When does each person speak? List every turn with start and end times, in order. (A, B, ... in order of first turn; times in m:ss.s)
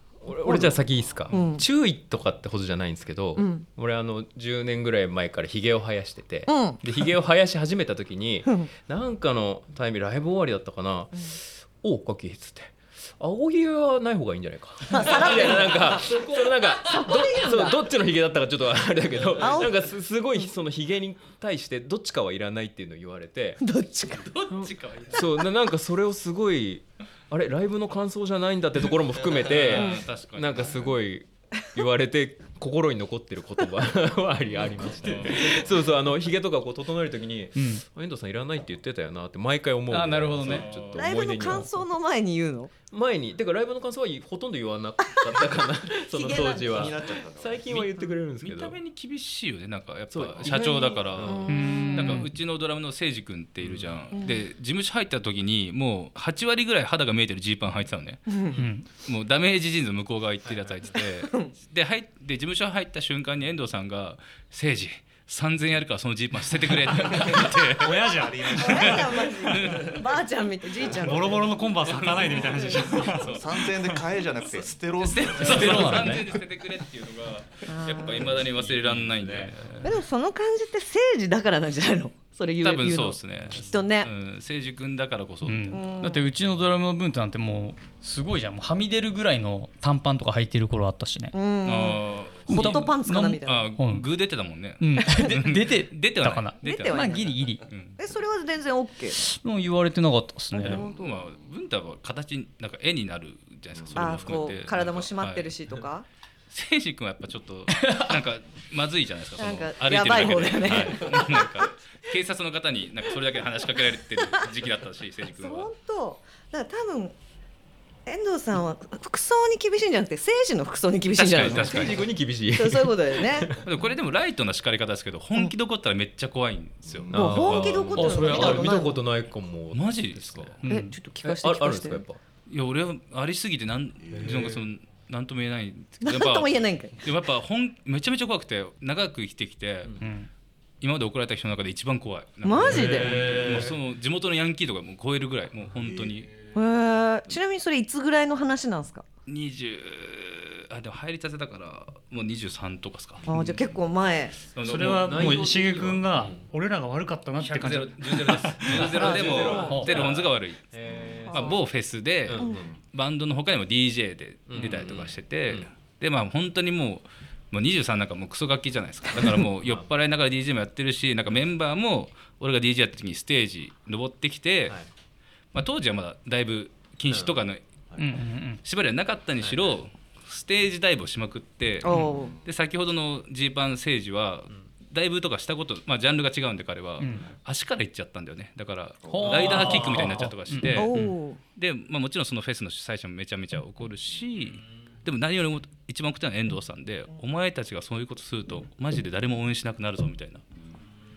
0:00.2-0:23.6 A
0:00.4-0:01.6 B
0:03.4-0:03.7 B
0:06.5-0:06.8 B
0:14.9-0:16.2 B
0:16.8-0:17.8 B
0:19.4-0:20.5 B
0:23.6-0:24.7 B
0:24.1-0:25.2 C
0:25.1-0:41.8 A
0:29.3-0:31.0 C
0:29.8-0:30.0 B
0:35.0-0:35.8 C
0:37.6-0:37.8 D
0:39.9-0:40.7 D
0:40.4-0:41.0 C
0:41.0-0:42.7 B
0:42.9-0:48.8 A
0:46.1-0:47.0 B
0:46.6-0:47.7 E
0:48.4-1:10.0 C
0:50.1-0:51.5 A
0:50.4-0:52.3 B
0:51.5-0:52.2 D
0:53.6-0:54.0 A
0:54.1-0:54.4 B
0:58.6-0:58.9 D
1:00.4-1:00.9 A
1:01.2-1:01.5 B
1:07.2-1:09.0 F
1:08.6-1:11.4 B
1:11.0-1:13.4 F
1:11.7-1:13.5 C
1:13.2-1:16.4 E
1:15.0-1:20.0 C
1:15.6-1:16.2 D
1:17.7-1:18.4 B
1:18.3-1:19.5 A
1:19.8-1:24.1 B
1:22.6-1:25.8 C
1:25.4-1:31.4 D
1:25.7-1:26.2 B
1:31.3-1:33.7 B
1:31.6-1:38.0 C
1:32.5-1:34.1 D
1:34.8-1:37.7 D
1:36.6-1:37.4 B
1:38.0-1:39.2 B
1:39.2-1:40.8 D
1:40.5-1:45.6 C
1:40.6-1:41.0 B
1:43.9-1:46.0 B
1:46.5-1:55.7 C
1:47.7-1:48.1 D
1:49.4-1:51.7 B
1:55.3-1:57.2 B
1:58.1-2:02.0 B
2:01.2-2:02.1 C
2:01.4-2:03.6 A
2:02.5-2:03.5 B
2:03.6-2:08.6 C
2:06.8-2:07.2 E
2:07.1-2:10.6 A
2:07.1-2:09.0 B
2:08.0-2:08.8 D
2:09.7-2:10.7 C
2:10.6-2:11.0 D
2:10.7-2:12.0 B
2:11.2-2:12.2 A
2:12.5-2:20.0 C
2:14.0-2:14.6 E
2:14.1-2:14.6 A
2:16.0-2:17.0 B
2:20.0-2:20.3 D
2:20.8-2:26.3 C
2:22.4-2:23.2 B
2:22.7-2:23.8 A
2:26.6-2:29.0 B
2:29.3-2:33.3 C
2:33.3-2:34.4 B
2:34.5-2:35.5 C
2:34.6-2:38.9 F
2:34.8-2:36.5 A
2:37.4-2:40.6 C
2:38.7-2:41.6 A
2:39.0-2:39.8 B
2:40.9-2:41.2 E
2:41.3-2:41.6 B
2:41.3-2:54.8 C
2:42.3-2:42.7 A
2:42.4-2:42.6 B
2:44.5-2:45.7 A
2:49.6-2:49.9 A
2:55.5-2:57.6 C
2:57.1-2:57.4 A
2:58.0-2:58.6 D
2:58.6-3:10.9 C
2:59.4-2:59.8 A
3:01.8-3:02.3 B
3:02.1-3:02.4 E
3:07.0-3:07.3 D
3:09.1-3:09.8 E
3:09.1-3:11.2 D
3:10.8-3:11.4 B
3:11.6-3:20.4 C